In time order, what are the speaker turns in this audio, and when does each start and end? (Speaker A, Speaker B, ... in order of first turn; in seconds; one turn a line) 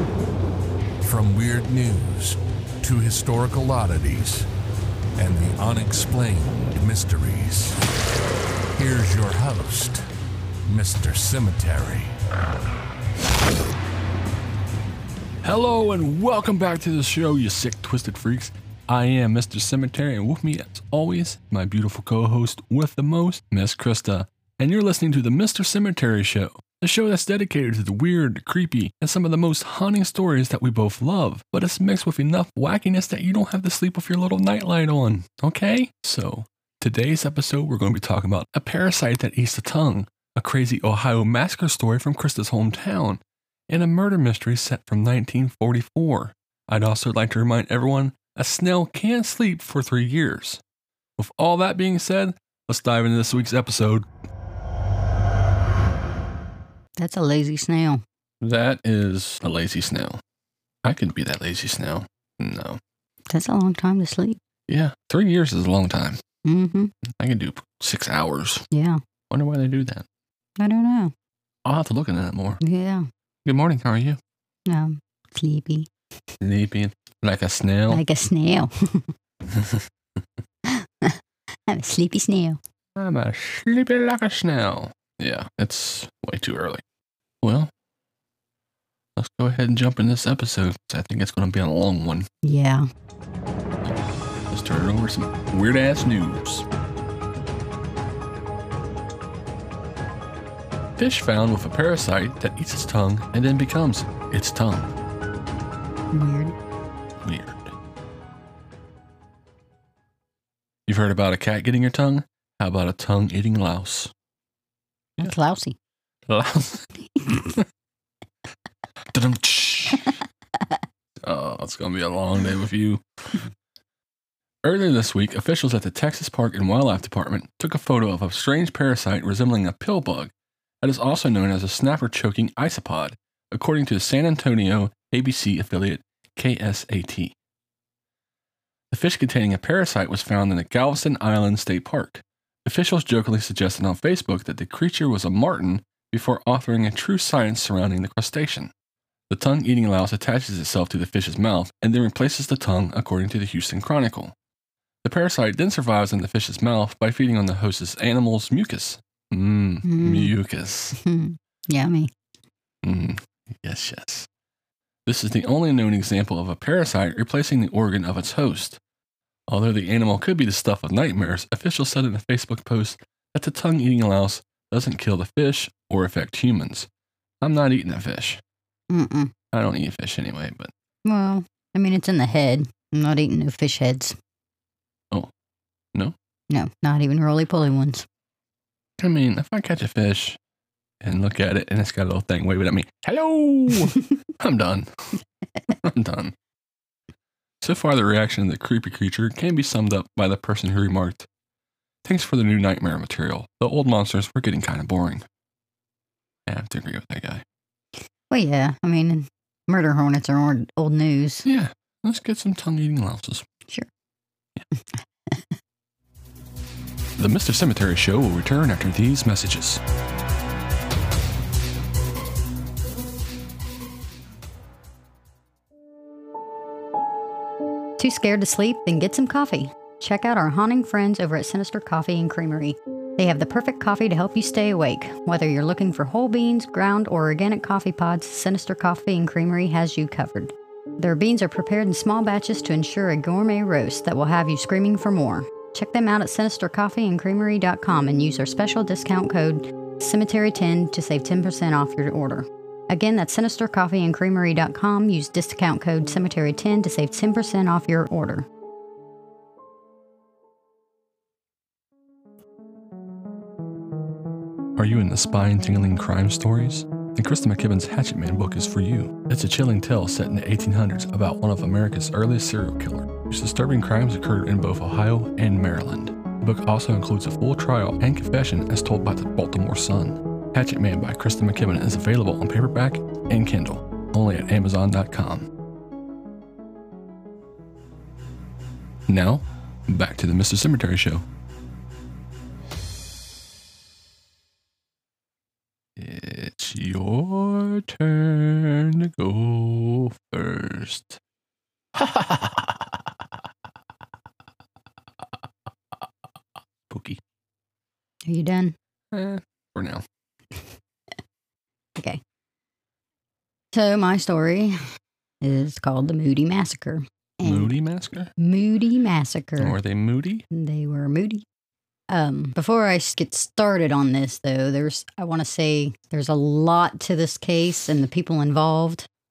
Speaker A: 1.0-4.5
Speaker A: 5.2-7.8
Speaker A: 8.7-10.1
Speaker A: 10.7-12.1
Speaker B: 15.4-50.6
Speaker B: 51.2-54.1
Speaker C: 57.0-58.0
Speaker B: 58.4-60.2
Speaker B: 60.8-62.8
Speaker C: 63.3-64.4
Speaker B: 64.7-66.2
Speaker C: 66.5-66.9
Speaker B: 67.1-68.7
Speaker C: 68.7-69.0
Speaker B: 69.3-70.1
Speaker C: 70.6-71.1
Speaker B: 71.7-72.6
Speaker C: 72.6-73.1
Speaker B: 73.5-74.2
Speaker C: 74.7-75.9
Speaker B: 76.4-78.0
Speaker C: 77.9-79.1
Speaker B: 79.5-80.2
Speaker C: 80.7-82.6
Speaker B: 83.0-86.8
Speaker B: 87.4-87.7
Speaker B: 89.2-92.3
Speaker C: 92.4-92.9
Speaker B: 94.5-96.7
Speaker B: 101.0-104.9
Speaker C: 106.1-106.5
Speaker B: 107.2-107.7
Speaker B: 110.9-114.1
Speaker C: 115.2-115.8
Speaker B: 116.3-117.7
Speaker B: 119.1-120.2
Speaker B: 121.2-123.5
Speaker B: 124.6-137.3
Speaker B: 138.9-148.7
Speaker B: 149.3-154.3
Speaker B: 155.0-161.0
Speaker C: 159.8-160.3
Speaker C: 160.9-162.1
Speaker B: 162.8-164.3
Speaker B: 165.1-168.8
Speaker B: 169.5-176.9
Speaker B: 177.4-178.4
Speaker C: 178.9-179.3
Speaker B: 179.5-180.7
Speaker C: 181.1-184.2
Speaker C: 186.5-188.1
Speaker B: 189.0-190.4
Speaker B: 191.0-195.1
Speaker B: 195.8-196.3
Speaker B: 197.6-201.3
Speaker B: 202.1-205.2
Speaker B: 206.5-207.4
Speaker C: 208.3-211.5
Speaker B: 211.5-213.4
Speaker B: 217.2-219.8
Speaker C: 228.0-258.5
Speaker B: 264.8-285.5
Speaker B: 289.1-291.2
Speaker B: 296.0-301.2
Speaker B: 302.0-302.7
Speaker B: 306.9-307.2
Speaker C: 308.3-308.8
Speaker B: 309.1-310.0
Speaker C: 312.0-312.2
Speaker C: 313.7-314.8
Speaker C: 315.4-317.8
Speaker B: 317.4-318.3
Speaker C: 318.4-319.8
Speaker B: 319.6-320.4
Speaker C: 320.5-321.4
Speaker C: 322.1-329.1